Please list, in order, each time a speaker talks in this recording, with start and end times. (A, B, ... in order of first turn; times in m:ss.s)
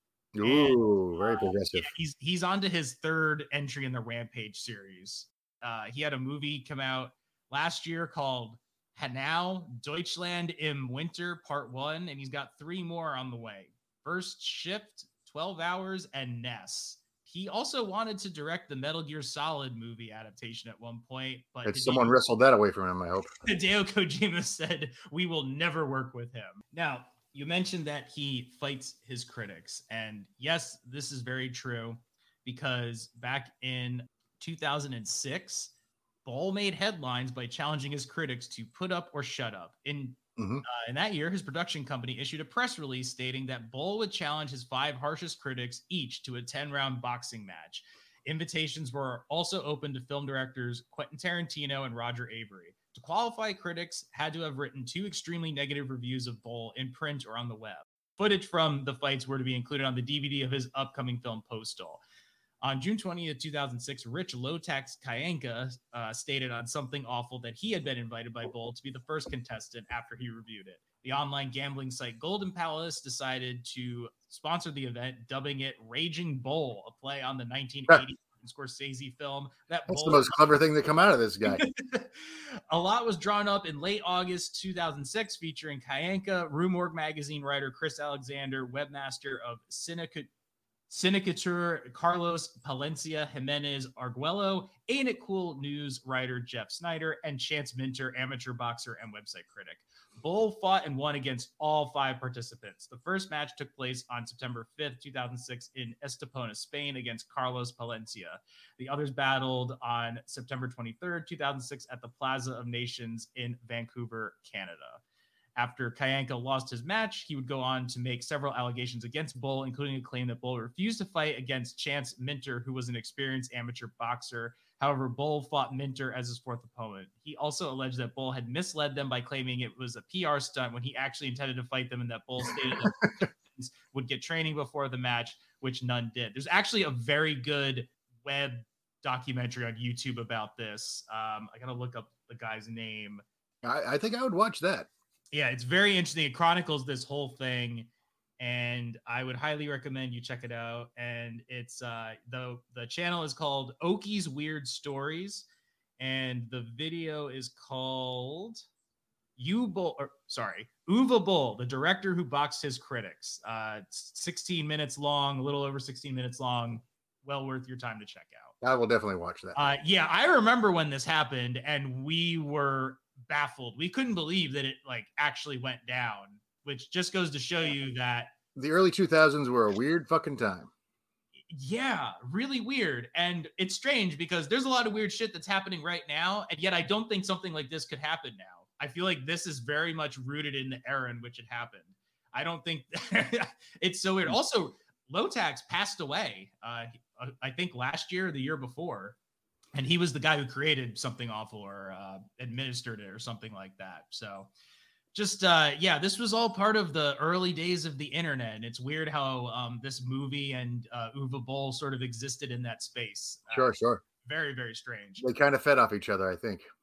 0:00.3-0:01.9 A
0:00.4-0:22.2 B
0:21.6-0:23.3 A
0:23.4-0:35.7 B
0:36.2-1:02.0 B
0:40.4-0:40.6 A
1:02.6-1:20.3 B
1:19.9-1:21.6 A
1:21.4-1:30.3 B
1:30.9-1:55.0 B
1:55.6-2:23.2 B
2:12.8-2:13.0 A
2:23.6-2:24.9 A
2:25.3-2:35.4 B
2:36.0-2:38.6 B
2:39.4-2:48.5 B
2:48.6-2:49.6 A
2:49.6-2:58.3 B
2:58.5-3:00.7 A
3:01.5-3:19.2 B
3:19.7-3:24.5 B
3:25.1-3:35.2 B
3:33.5-3:34.0 A
3:35.2-3:36.7 A